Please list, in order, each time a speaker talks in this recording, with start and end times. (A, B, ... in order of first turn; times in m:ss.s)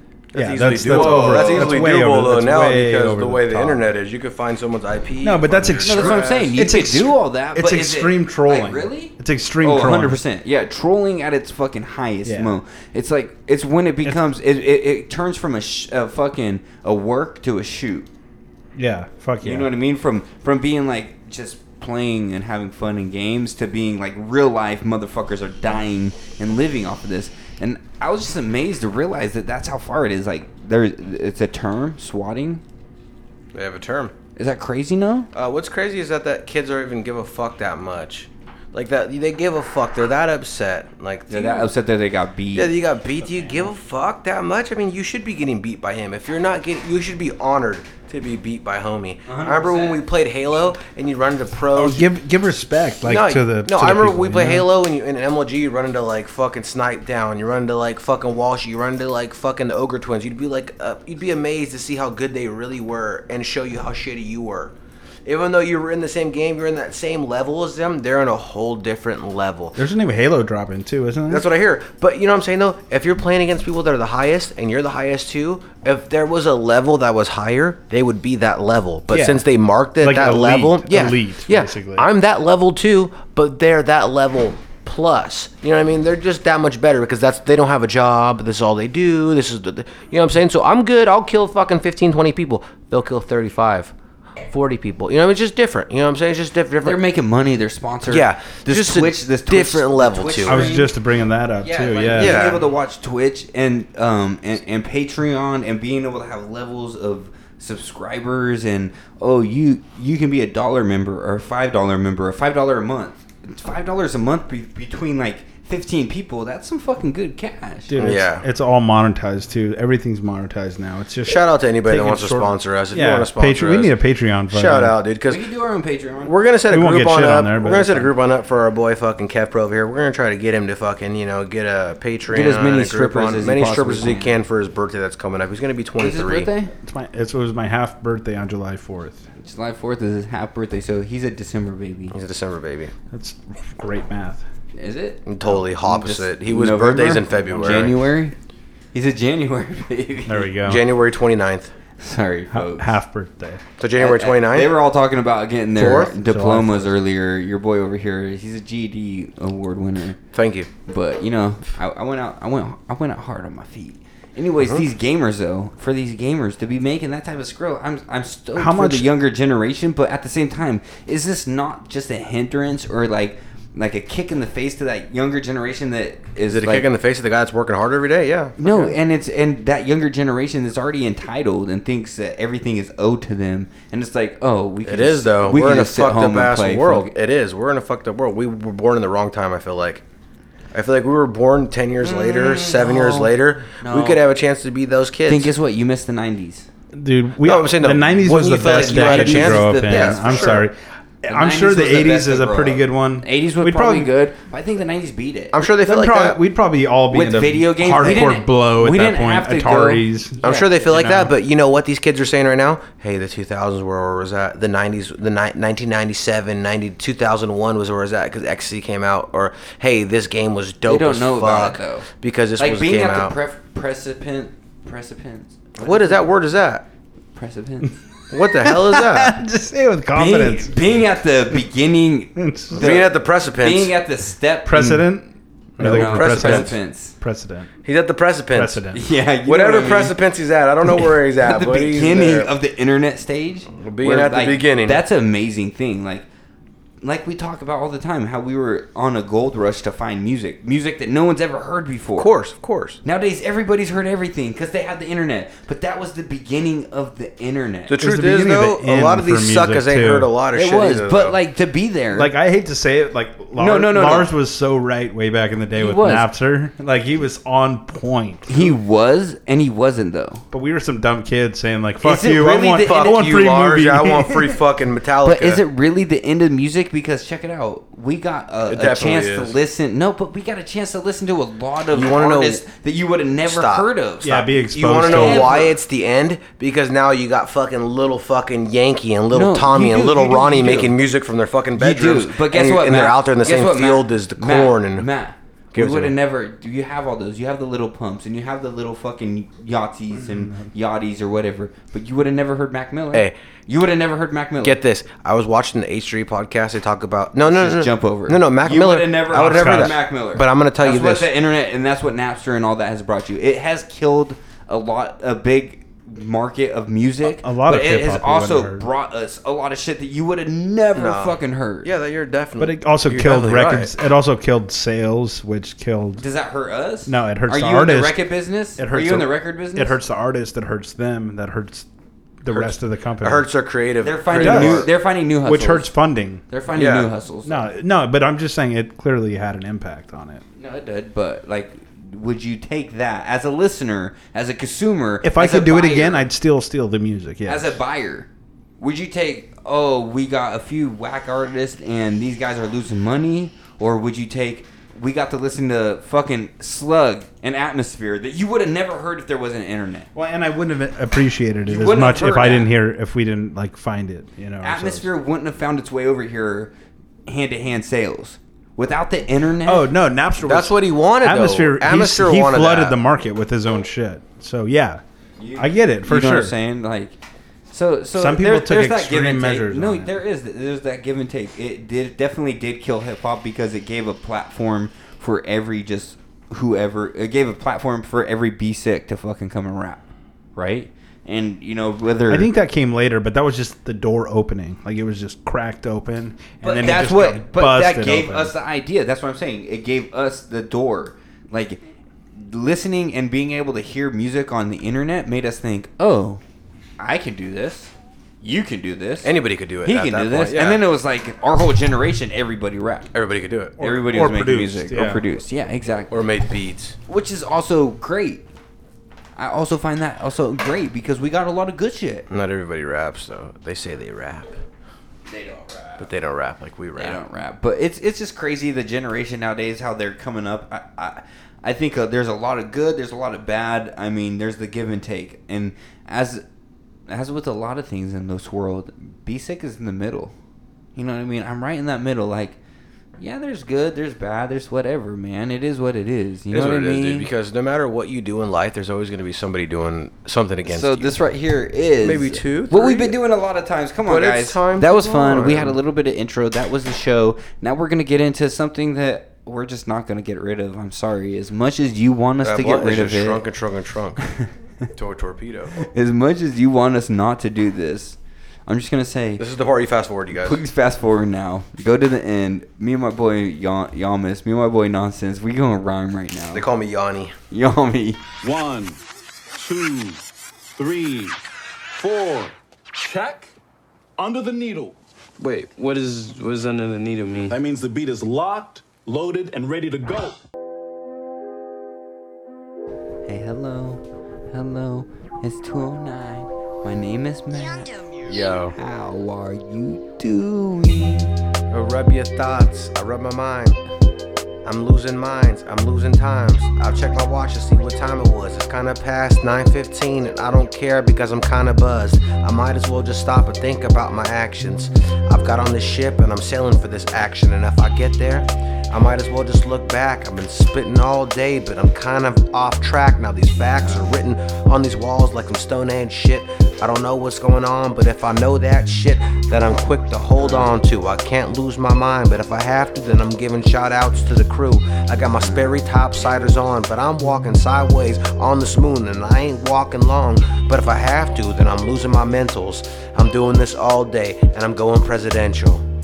0:00.3-0:06.5 A
0:00.3-0:03.8 B
0:00.8-0:01.9 C
0:05.2-0:10.2 B
0:05.8-0:18.1 C
0:12.2-0:12.5 B
0:18.8-0:19.7 B
0:19.4-0:32.6 C
0:33.5-0:34.1 A
0:34.4-0:35.3 C
0:35.3-0:41.7 A
0:41.3-0:42.7 C
0:42.5-0:52.0 A
0:49.2-0:50.0 C
0:51.7-0:54.7 B
0:53.0-1:04.7 A
1:05.2-1:09.8 A
1:09.8-1:11.4 B
1:11.3-1:33.9 A
1:19.1-1:19.4 B
1:20.0-1:22.1 B
1:34.4-1:37.0 A
1:36.8-1:40.9 C
1:38.0-1:40.6 A
1:40.4-1:42.6 B
1:41.6-1:58.0 C
1:42.1-1:42.6 A
1:57.9-2:04.9 B
1:58.0-1:58.4 A
2:01.2-2:03.9 A
2:04.5-2:05.4 A
2:05.3-2:06.3 C
2:06.2-2:16.5 A
2:06.7-2:08.1 B
2:12.3-2:14.4 C
2:16.0-2:16.7 C
2:16.8-2:19.2 B
2:19.4-2:22.2 C
2:22.1-2:22.9 A
2:23.1-2:24.4 B
2:24.8-2:28.3 C
2:25.2-2:27.9 A
2:27.6-2:27.9 B
2:28.9-2:30.5 C
2:30.3-2:30.8 B
2:30.6-2:31.7 A
2:32.0-2:32.9 C
2:32.5-2:33.6 B
2:33.8-2:34.7 A
2:34.0-2:40.2 C
2:35.8-2:36.1 A
2:35.8-2:36.9 B
2:40.3-2:40.7 A
2:40.9-2:56.8 C
2:44.6-2:44.8 A
2:48.6-2:49.1 B
2:56.5-2:58.9 A
2:58.6-3:07.1 C
3:04.8-3:10.0 A
3:10.7-3:15.5 A
3:12.0-3:14.2 C
3:15.3-3:16.7 C
3:16.9-3:20.7 B
3:17.4-3:20.6 A
3:18.6-3:20.6 C
3:21.2-3:24.1 B
3:21.3-3:25.6 C
3:25.5-3:26.4 A
3:25.8-3:31.3 B
3:27.1-3:30.6 C
3:30.4-3:43.3 A
3:40.8-3:46.2 C
3:45.8-3:46.8 A
3:47.3-3:47.9 C
3:48.3-3:49.4 A
3:48.6-3:50.8 B
3:50.1-3:55.1 C
3:52.4-3:52.9 B
3:52.7-3:54.0 A
3:54.6-3:57.7 B
3:55.8-3:56.7 A
3:55.8-3:57.2 C
3:57.8-3:58.8 A
3:58.5-3:59.0 B
3:58.9-4:00.2 C
3:59.4-4:02.5 A
4:01.4-4:06.3 C
4:03.8-4:05.0 A
4:07.0-4:12.3 C
4:12.2-4:13.0 A
4:13.0-4:18.0 C
4:17.9-4:21.4 A
4:17.9-4:20.3 B
4:20.5-4:22.3 C
4:22.1-4:28.7 B
4:23.6-4:24.3 C
4:25.7-4:26.3 C
4:28.5-4:30.4 C
4:30.5-4:34.5 B
4:32.0-4:33.2 C
4:32.8-4:35.6 A
4:35.2-4:45.7 C
4:38.7-4:39.6 A
4:41.9-4:42.6 A
4:43.4-4:55.1 A
4:44.2-4:45.5 B
4:49.3-4:51.0 C
4:51.8-5:04.8 C
4:55.7-4:56.1 A
5:00.1-5:00.7 B
5:04.6-5:11.3 A
5:07.4-5:21.9 C
5:09.3-5:10.0 B
5:17.3-5:18.8 B
5:20.9-5:23.9 A
5:22.6-5:26.2 B
5:26.2-5:30.0 C
5:27.0-5:28.2 B
5:28.8-5:31.9 B
5:32.4-5:33.5 B
5:32.5-5:34.9 A
5:34.0-5:35.9 C
5:34.3-5:34.9 B
5:35.4-5:36.4 B
5:36.5-5:37.6 C
5:36.7-5:37.1 A
5:37.4-5:40.4 B
5:40.6-5:46.3 C
5:45.2-5:47.8 B
5:47.4-6:00.1 C
6:00.1-6:05.1 B
6:01.6-6:02.7 C
6:04.6-6:06.7 C
6:07.3-6:09.9 C
6:09.6-6:15.0 B
6:10.4-6:12.9 A
6:15.4-6:17.2 C
6:15.6-6:16.5 B
6:17.7-6:32.5 C
6:18.1-6:20.1 B
6:32.3-6:38.5 B
6:36.6-6:41.8 C
6:42.3-6:46.4 C
6:47.0-6:53.1 C
6:49.2-6:50.8 A
6:53.1-6:53.8 A
6:53.8-6:55.2 B
6:53.8-6:56.2 C
6:56.1-6:57.0 A
6:57.1-6:58.4 C
6:59.4-7:02.3 C
7:02.3-7:04.6 A
7:05.3-7:06.1 C
7:06.0-7:07.2 A
7:07.0-7:16.4 C
7:17.1-7:20.3 C
7:21.0-7:22.6 C
7:23.2-7:27.3 C
7:26.5-7:31.1 A
7:30.7-7:43.4 C
7:32.0-7:33.2 A
7:34.0-7:35.8 A
7:42.4-7:44.2 A
7:44.9-7:45.7 A
7:45.8-7:49.4 C
7:49.4-7:50.6 A
7:50.3-7:56.6 C
7:56.5-7:57.3 A
7:57.5-7:58.2 C
7:58.4-7:59.0 D
7:59.5-8:00.2 D
8:00.8-8:01.4 D
8:01.9-8:03.5 D
8:04.2-8:10.4 D
8:13.2-8:21.3 C
8:18.3-8:18.7 A
8:21.7-8:23.8 A
8:24.6-9:05.8 A
8:43.8-8:44.0 C
8:50.4-8:50.7 C
8:55.4-8:55.7 C